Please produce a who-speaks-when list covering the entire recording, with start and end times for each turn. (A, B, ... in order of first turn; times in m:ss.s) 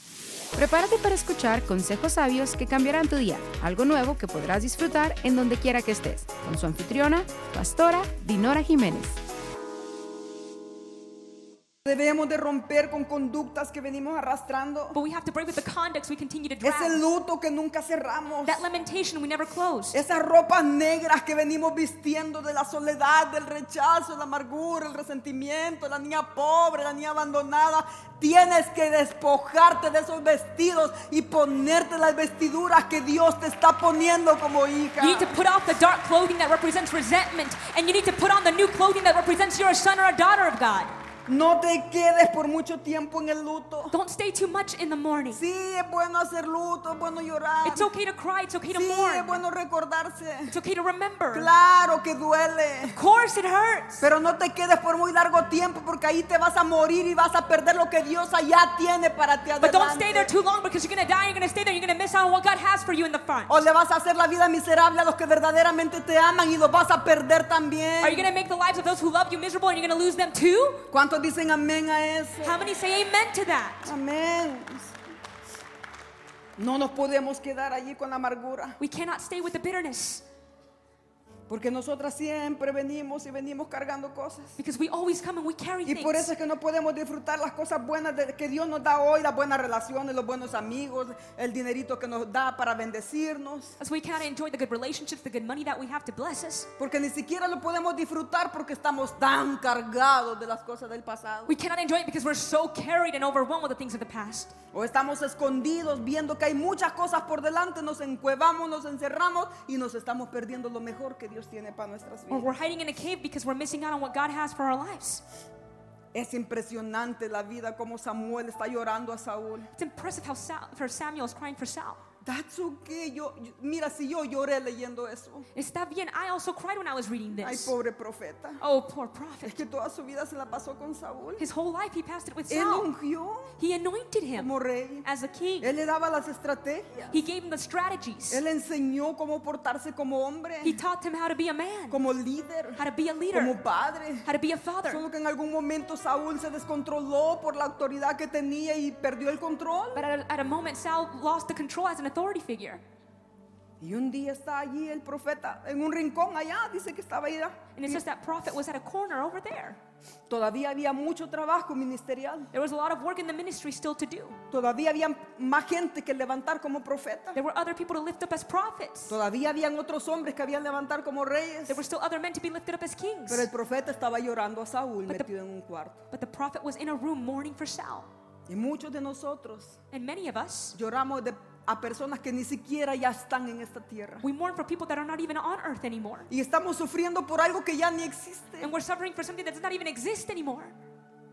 0:00.6-0:09.2 A
0:11.8-0:15.0 B
0:14.9-0:17.0 C
0:16.6-0:18.7 B
0:18.4-0:20.0 C
0:19.9-0:35.4 B
0:35.0-0:40.9 C
0:41.3-0:43.9 B
0:43.9-0:45.4 C
0:45.3-0:47.9 B
0:47.6-0:49.4 C
0:48.7-0:50.6 B
0:50.5-0:51.5 C
0:51.3-0:53.0 B
0:52.9-0:54.0 C
0:54.0-1:00.3 B
0:59.6-1:03.6 C
1:03.5-1:08.3 B
1:08.0-1:10.9 C
1:10.9-1:12.6 B
1:12.4-1:13.9 C
1:13.8-1:14.9 B
1:16.6-1:18.8 B
1:18.8-1:20.2 C
1:21.5-1:24.6 B
1:24.6-1:26.3 C
1:25.8-1:33.8 B
1:33.8-1:36.7 C
1:36.8-1:41.5 B
1:41.5-1:44.5 C
1:44.7-1:52.5 B
1:52.3-1:55.2 C
1:56.1-1:59.7 B
1:59.7-2:02.0 C
2:02.2-2:05.4 B
2:05.5-2:07.7 C
2:07.3-2:08.6 B
2:08.6-2:09.6 C
2:09.4-2:11.4 B
2:11.4-2:12.9 C
2:12.5-2:13.5 B
2:13.6-2:14.5 C
2:14.4-2:15.1 B
2:15.0-2:15.7 C
2:15.6-2:17.2 B
2:17.1-2:18.4 C
2:18.3-2:20.8 B
2:20.6-2:22.0 C
2:21.9-2:24.3 B
2:22.8-2:23.6 C
2:24.2-2:25.0 C
2:24.9-2:30.0 B
2:29.9-2:32.8 C
2:33.8-2:38.0 B
2:37.7-2:39.8 C
2:40.3-2:42.5 B
2:42.5-2:44.4 C
2:44.5-2:47.4 B
2:47.3-2:49.2 C
2:49.1-2:51.8 B
2:51.7-2:53.5 C
2:53.3-2:56.0 B
2:56.1-2:58.1 C
2:58.5-2:59.8 B
2:59.9-3:00.8 C
3:00.7-3:04.2 B
3:04.2-3:06.3 C
3:06.3-3:08.7 B
3:08.6-3:10.8 C